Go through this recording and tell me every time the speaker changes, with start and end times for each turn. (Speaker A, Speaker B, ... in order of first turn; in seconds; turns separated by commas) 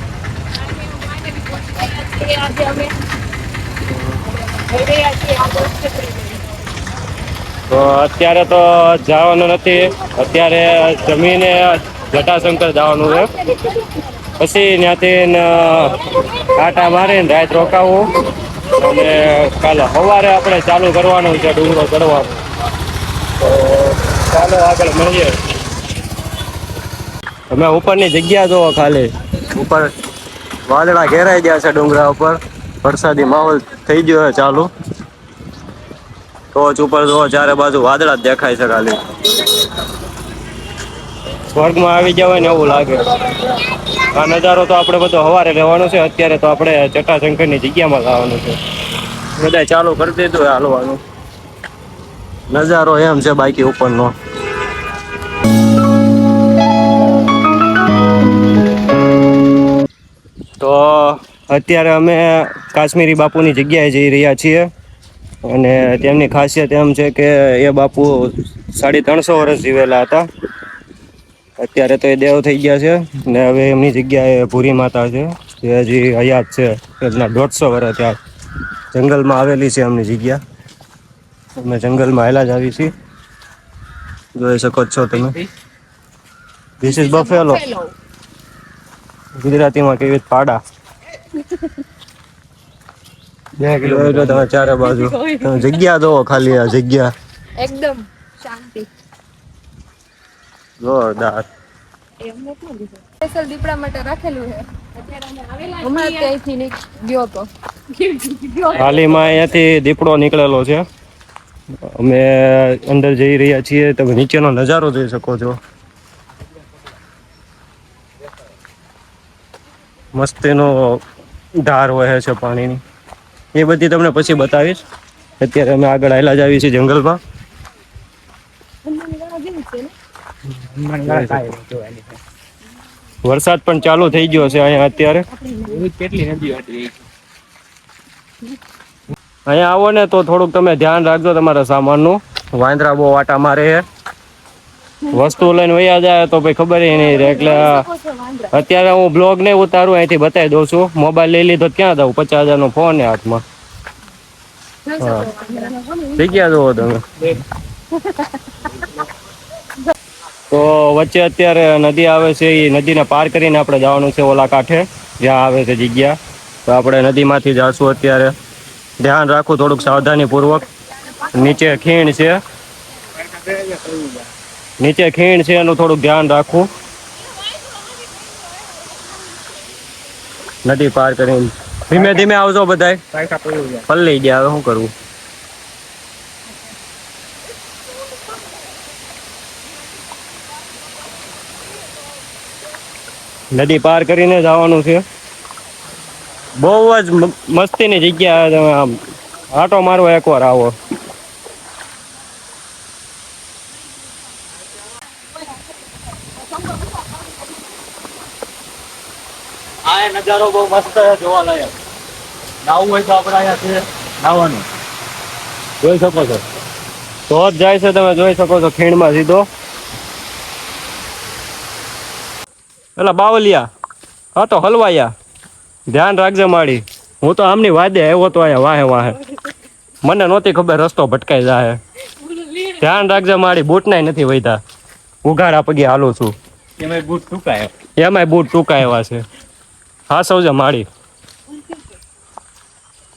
Speaker A: 0.8-3.0, Speaker B: 3.9-4.2, Speaker A: 4.6-6.4, Speaker B: 7.7-13.4, Speaker B: 14.4-18.1, Speaker B: 18.7-22.4, Speaker B: 23.4-25.4, Speaker B: 27.5-29.9, Speaker B: 30.7-34.7, Speaker B: 36.5-39.0, Speaker B: 41.5-43.2, Speaker B: 44.0-48.6, Speaker B: 49.4-51.0, Speaker B: 52.5-54.1, Speaker B: 60.6-64.7, Speaker B: 65.5-70.3, Speaker B: 71.6-78.2, Speaker B: 78.9-80.4, Speaker B: 81.6-82.9, Speaker B: 84.4-85.4, Speaker B: 86.8-87.7, Speaker A: 87.1-87.9, Speaker B: 89.4-90.6, Speaker C: 93.6-94.2, Speaker B: 93.8-97.1, Speaker A: 97.6-98.9, Speaker B: 100.8-101.5, Speaker A: 102.2-108.7, Speaker B: 108.7-110.8, Speaker B: 111.9-115.6, Speaker B: 120.1-121.0, Speaker B: 121.6-122.8, Speaker B: 123.5-124.8, Speaker B: 125.4-127.2, Speaker A: 128.9-129.9, Speaker C: 130.8-132.0, Speaker B: 131.0-131.6, Speaker B: 133.2-135.3, Speaker C: 135.7-136.9, Speaker B: 139.5-143.8, Speaker B: 145.1-147.9, Speaker B: 148.4-153.4, Speaker B: 154.9-155.4, Speaker A: 155.3-156.0, Speaker B: 156.0-157.3, Speaker B: 160.5-168.3, Speaker B: 169.0-170.6, Speaker B: 171.2-172.4, Speaker C: 173.5-174.1, Speaker B: 174.8-176.7, Speaker B: 180.6-184.9, Speaker B: 193.5-195.0, Speaker B: 196.6-199.0, Speaker B: 199.5-200.8, Speaker B: 209.9-211.7, Speaker B: 212.7-214.7, Speaker B: 215.8-216.4, Speaker B: 217.3-219.5, Speaker B: 223.0-223.7, Speaker B: 224.4-225.1, Speaker B: 225.9-229.2, Speaker B: 230.0-231.8, Speaker B: 232.4-234.6, Speaker B: 235.2-236.4, Speaker C: 236.8-237.4, Speaker B: 237.4-239.2, Speaker B: 240.1-240.9